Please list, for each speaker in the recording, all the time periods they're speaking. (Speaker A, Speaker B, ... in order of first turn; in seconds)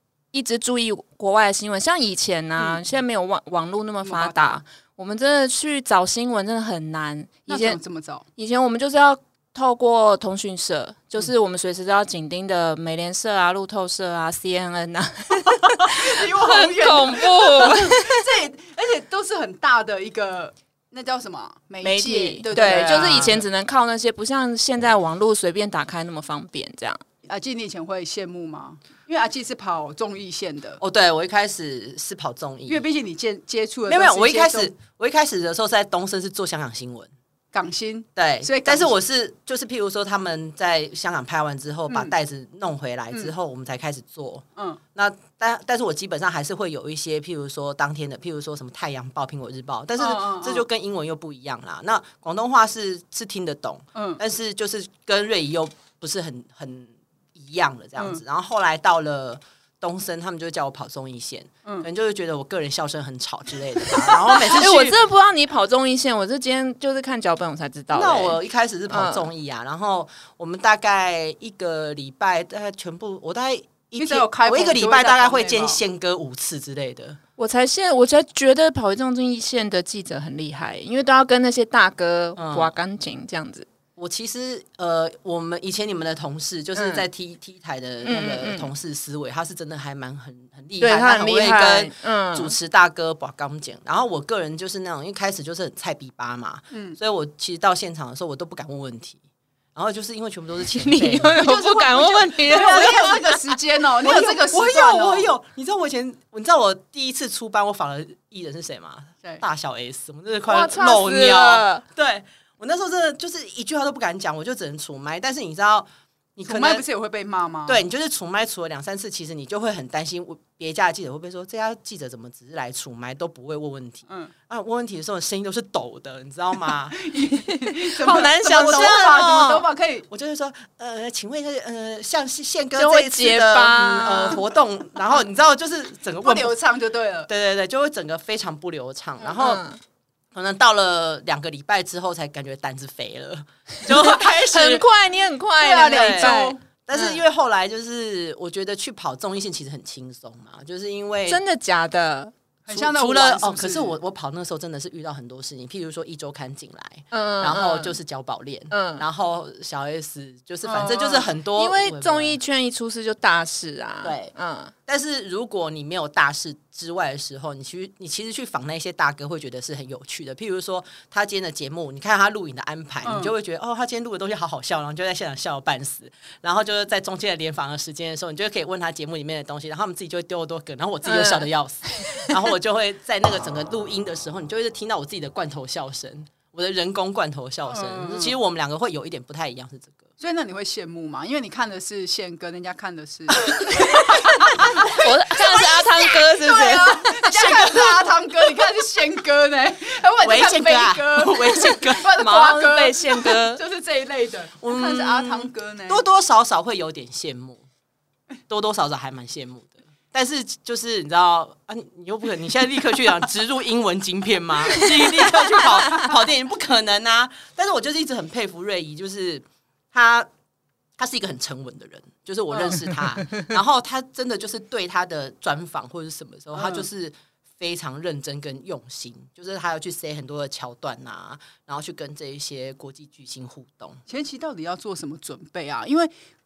Speaker A: 0.3-7.8, 8.3-18.2, 21.8-27.0, 64.4-69.3, 77.4-83.7, 86.7-87.0, 88.0-88.7, 90.8-92.5, 100.7-103.4, 110.5-111.8, 127.8-129.2, 132.8-134.4, 139.3-139.8, 143.9-147.2, 151.3-152.3, 157.1-158.0, 158.7-159.0, 161.6-164.7, 181.0-182.3, 194.8-197.3, 202.1-203.6
Speaker B: 2.6-2.8, 4.0-4.5, 7.5-8.2, 15.8-23.4, 27.2-30.8, 32.7-34.7, 37.5-38.9, 41.9-42.1, 44.5-44.8, 50.0-50.6, 53.9-54.2, 58.0-58.2, 74.0-75.8, 96.7-97.0, 101.4-105.3, 116.4-117.8, 124.1-124.3, 126.9-130.1, 136.2-137.3, 145.6-146.6, 152.7-154.0, 160.6-161.3, 173.0-173.3, 187.7-188.4, 190.2-206.0, 214.8-216.1, 222.5-223.2, 226.5-226.9, 234.1-236.1
Speaker C: 22.5-23.4, 30.8-32.8, 33.9-37.1, 38.2-65.0, 67.9-77.2, 82.4-82.7, 84.0-99.2, 99.7-103.3, 104.0-116.8, 117.7-127.0, 128.2-136.6, 137.3-139.6, 140.3-144.8, 145.8-151.4, 152.7-162.4, 164.0-164.3, 164.9-190.1, 197.3-198.2, 200.2-202.0, 204.6-207.6, 208.5-220.3, 221.0-234.0